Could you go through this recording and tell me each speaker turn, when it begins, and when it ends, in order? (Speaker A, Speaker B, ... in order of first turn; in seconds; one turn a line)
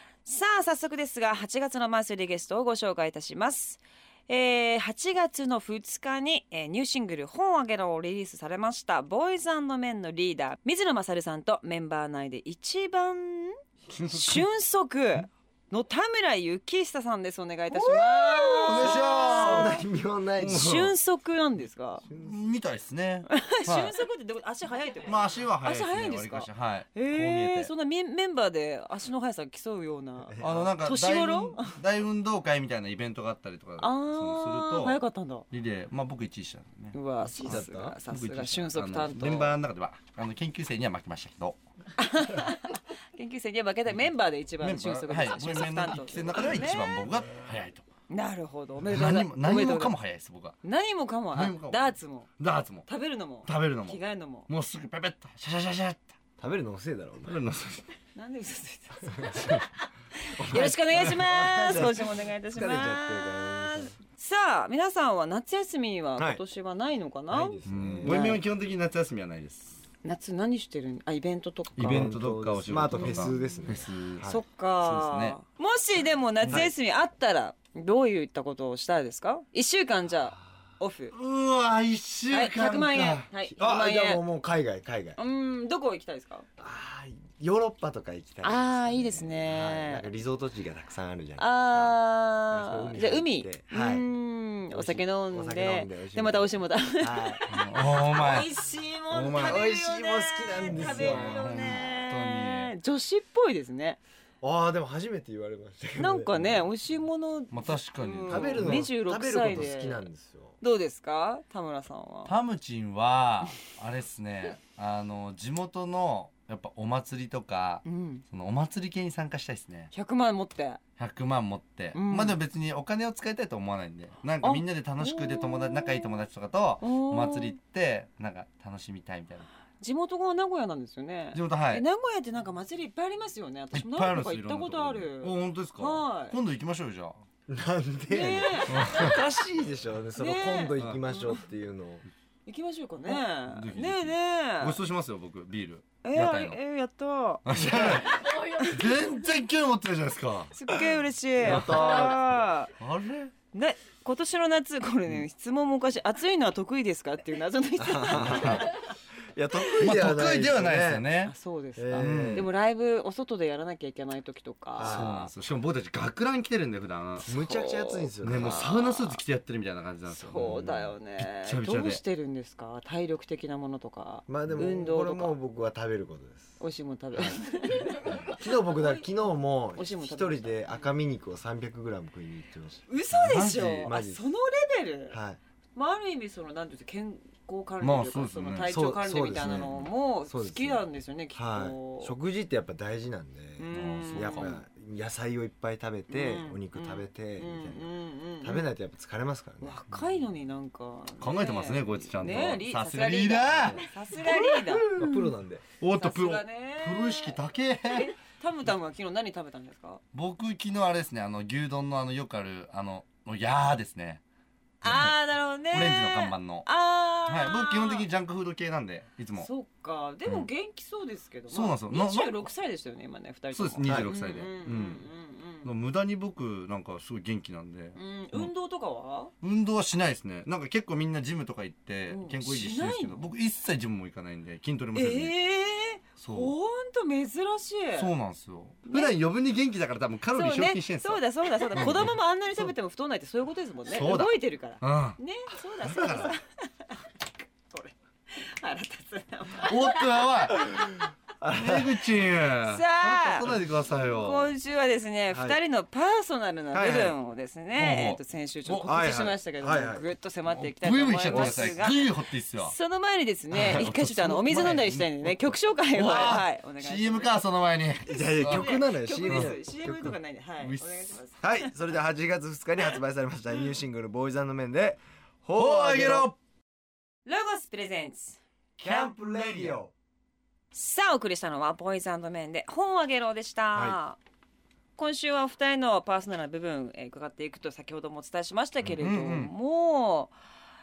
Speaker A: 0.2-13.6
Speaker B: 13.9-14.5
Speaker A: 14.1-19.8
Speaker C: 17.7-20.9
Speaker B: 18.3-19.8
Speaker B: 20.4-20.7
Speaker A: 20.5-22.1
Speaker C: 22.1-22.4
Speaker B: 22.1-23.9
Speaker A: 23.3-31.8
Speaker B: 25.1-27.7
Speaker C: 30.2-30.8
Speaker B: 30.4-41.6
Speaker A: 33.8-35.5
Speaker A: 36.9-39.6
Speaker C: 37.2-38.0
Speaker A: 42.0-47.1
Speaker B: 44.6-47.9
Speaker A: 48.1-49.9
Speaker B: 48.9-50.6
Speaker A: 50.6-52.3
Speaker B: 51.3-52.9
Speaker A: 52.9-54.5
Speaker B: 53.5-56.1
Speaker C: 56.4-57.4
Speaker B: 57.2-57.9
Speaker A: 58.2-68.4
Speaker B: 59.4-59.6
Speaker C: 60.4-64.0
Speaker C: 67.3-68.4
Speaker B: 67.7-69.8
Speaker A: 70.0-72.1
Speaker B: 71.8-75.4
Speaker C: 71.8-74.4
Speaker A: 72.9-81.1
Speaker B: 76.4-76.7
Speaker B: 81.1-83.2
Speaker A: 82.3-84.2
Speaker C: 83.0-85.2
Speaker A: 85.2-86.5
Speaker C: 86.6-92.0
Speaker A: 88.4-90.1
Speaker A: 91.4-104.0
Speaker C: 92.5-94.1
Speaker C: 94.7-97.5
Speaker B: 97.5-98.5
Speaker B: 99.1-99.7
Speaker C: 99.2-101.9
Speaker B: 100.7-102.7
Speaker C: 104.4-106.7
Speaker A: 106.0-110.1
Speaker B: 107.5-108.9
Speaker C: 108.3-110.6
Speaker A: 110.6-112.3
Speaker B: 112.3-119.9
Speaker A: 117.8-118.2
Speaker A: 119.9-120.8
Speaker B: 121.0-129.5
Speaker A: 121.9-122.4
Speaker A: 124.4-126.2
Speaker A: 126.8-127.5
Speaker A: 129.8-136.4
Speaker B: 131.3-131.8
Speaker B: 133.7-137.2
Speaker C: 137.5-142.1
Speaker A: 138.1-139.4
Speaker B: 138.7-139.2
Speaker A: 140.2-141.4
Speaker B: 140.8-141.0
Speaker A: 142.5-144.8
Speaker B: 143.1-146.6
Speaker A: 146.0-148.9
Speaker B: 147.4-150.6
Speaker C: 147.5-148.1
Speaker A: 150.5-152.7
Speaker C: 151.4-152.2
Speaker B: 151.4-152.2
Speaker B: 152.8-153.3
Speaker A: 153.5-158.8
Speaker C: 157.8-158.7
Speaker B: 158.2-158.7
Speaker C: 159.3-161.1
Speaker B: 159.7-161.3
Speaker A: 161.3-165.2
Speaker C: 161.8-162.5
Speaker B: 161.9-162.5
Speaker C: 164.8-165.3
Speaker B: 164.8-167.3
Speaker C: 167.2-169.1
Speaker A: 167.3-169.2
Speaker B: 168.2-172.0
Speaker A: 170.1-175.4
Speaker C: 174.3-176.6
Speaker A: 176.6-179.1
Speaker C: 178.0-182.9
Speaker A: 179.8-180.9
Speaker A: 182.9-185.2
Speaker B: 183.1-183.9
Speaker C: 183.8-184.3
Speaker C: 185.1-185.4
Speaker A: 185.8-192.1
Speaker B: 187.8-188.7
Speaker C: 188.7-197.9
Speaker A: 193.6-194.6
Speaker B: 193.7-194.6
Speaker A: 196.1-198.7
Speaker C: 198.4-199.8
Speaker A: 199.6-205.3
Speaker B: 201.2-205.1
Speaker C: 203.5-203.8
Speaker C: 204.9-205.6
Speaker B: 205.8-208.1
Speaker A: 205.9-207.4
Speaker A: 207.9-210.0
Speaker B: 210.1-214.2
Speaker A: 214.8-218.1
Speaker B: 214.8-216.7
Speaker B: 217.3-219.5
Speaker A: 219.4-225.7
Speaker B: 221.5-222.4
Speaker B: 223.5-225.1
Speaker C: 223.8-224.1
Speaker B: 225.6-228.5
Speaker A: 228.0-229.3
Speaker B: 229.4-235.3
Speaker A: 232.1-233.3
Speaker A: 234.9-238.1
Speaker B: 236.2-236.5
Speaker B: 237.9-242.1
Speaker A: 238.9-239.2
Speaker A: 240.3-247.0
Speaker B: 243.9-245.2
Speaker B: 245.8-246.3
Speaker A: 247.7-250.8
Speaker B: 249.6-250.8
Speaker C: 250.7-252.1
Speaker B: 251.5-254.5
Speaker A: 252.7-262.1
Speaker C: 255.3-255.6
Speaker C: 256.7-257.2
Speaker B: 257.7-258.9
Speaker C: 258.8-260.1
Speaker B: 260.5-262.8
Speaker C: 261.3-261.8
Speaker A: 262.6-267.3
Speaker B: 263.5-268.7
Speaker C: 268.1-270.1
Speaker A: 268.2-271.6
Speaker B: 269.3-269.6
Speaker B: 270.6-271.2
Speaker C: 271.4-276.3
Speaker B: 275.6-276.4
Speaker A: 277.3-278.4
Speaker C: 278.8-279.9
Speaker A: 280.7-284.2
Speaker C: 283.7-284.0
Speaker A: 285.0-290.3
Speaker B: 288.8-289.5